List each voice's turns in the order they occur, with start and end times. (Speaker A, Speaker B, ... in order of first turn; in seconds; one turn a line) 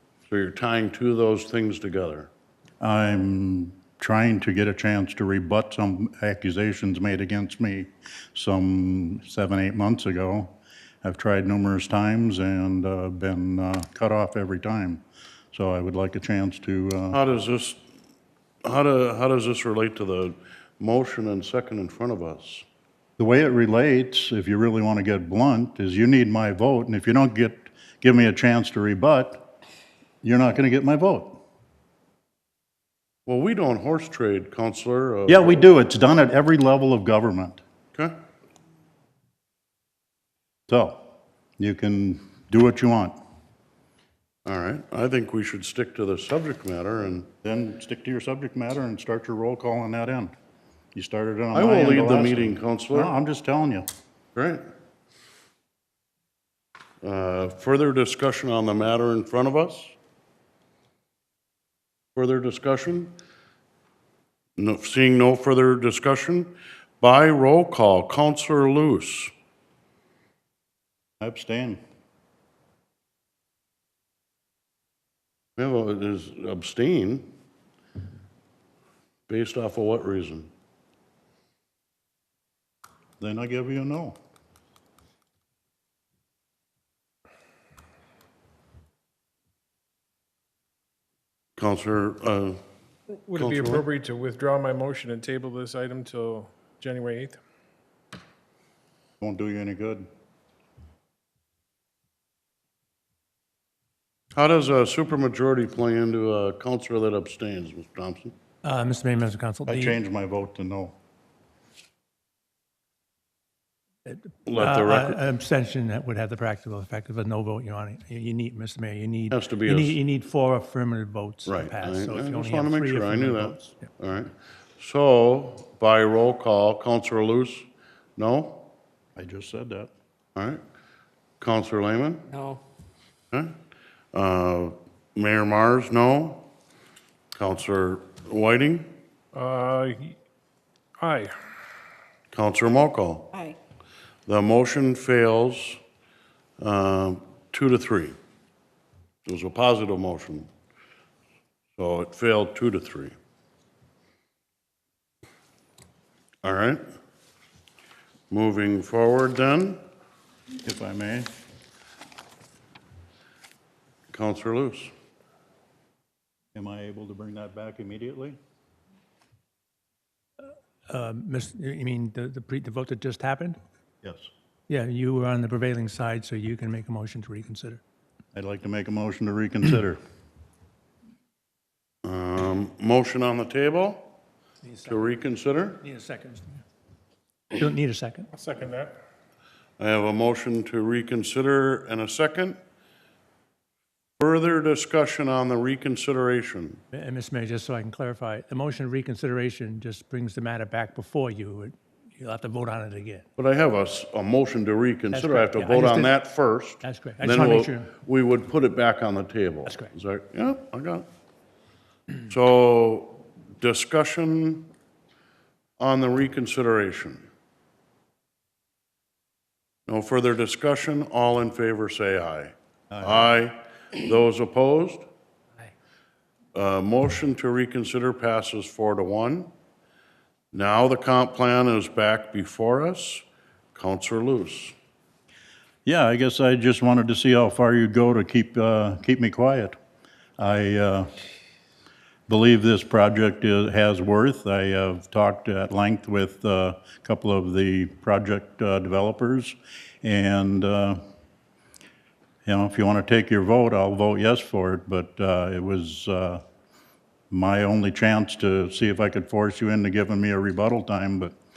Speaker A: 0.3-2.3
Speaker B: 2.8-17.2
Speaker A: 17.1-17.8
Speaker A: 18.6-22.6
Speaker B: 23.2-29.5
Speaker B: 30.2-31.4
Speaker A: 33.2-35.7
Speaker B: 35.3-37.6
Speaker B: 40.7-43.1
Speaker A: 44.4-47.3
Speaker B: 47.4-50.3
Speaker B: 50.9-53.9
Speaker A: 51.5-53.1
Speaker A: 54.3-54.6
Speaker A: 57.0-59.9
Speaker A: 62.1-63.1
Speaker A: 64.6-69.3
Speaker B: 71.2-71.8
Speaker A: 75.6-77.3
Speaker A: 79.3-80.5
Speaker B: 83.2-84.1
Speaker A: 91.6-92.6
Speaker C: 93.2-97.4
Speaker A: 93.3-93.8
Speaker B: 99.2-100.0
Speaker A: 104.3-108.3
Speaker D: 108.6-110.0
Speaker B: 109.7-111.0
Speaker D: 114.0-123.8
Speaker A: 114.5-115.2
Speaker A: 119.3-120.0
Speaker A: 121.5-128.7
Speaker B: 129.2-129.9
Speaker A: 130.3-130.6
Speaker A: 131.4-132.4
Speaker A: 134.1-136.5
Speaker A: 137.3-138.9
Speaker C: 139.3-140.1
Speaker C: 141.0-141.3
Speaker A: 142.3-143.4
Speaker A: 144.3-145.8
Speaker A: 146.6-148.1
Speaker A: 149.2-150.5
Speaker A: 151.8-153.1
Speaker A: 156.4-156.8
Speaker A: 158.3-159.8
Speaker B: 160.6-161.3
Speaker A: 164.1-164.9
Speaker B: 166.5-168.4
Speaker D: 170.9-173.6
Speaker B: 174.0-174.3
Speaker D: 174.7-177.8
Speaker B: 178.3-180.0
Speaker A: 182.0-184.1
Speaker D: 184.6-185.1
Speaker A: 184.8-185.8
Speaker D: 185.8-186.6
Speaker D: 187.5-188.3
Speaker C: 188.3-189.0
Speaker A: 189.8-192.6
Speaker A: 194.2-196.8
Speaker D: 196.9-203.2
Speaker A: 203.4-211.1
Speaker D: 205.1-206.2
Speaker D: 206.8-207.9
Speaker D: 209.7-209.9
Speaker A: 212.3-214.7
Speaker A: 215.8-217.3
Speaker A: 219.9-225.1
Speaker B: 222.9-223.3
Speaker A: 226.5-229.5
Speaker A: 230.5-234.7
Speaker B: 235.8-239.8
Speaker B: 240.4-241.1
Speaker B: 242.3-251.0
Speaker B: 252.4-256.4
Speaker B: 257.3-261.3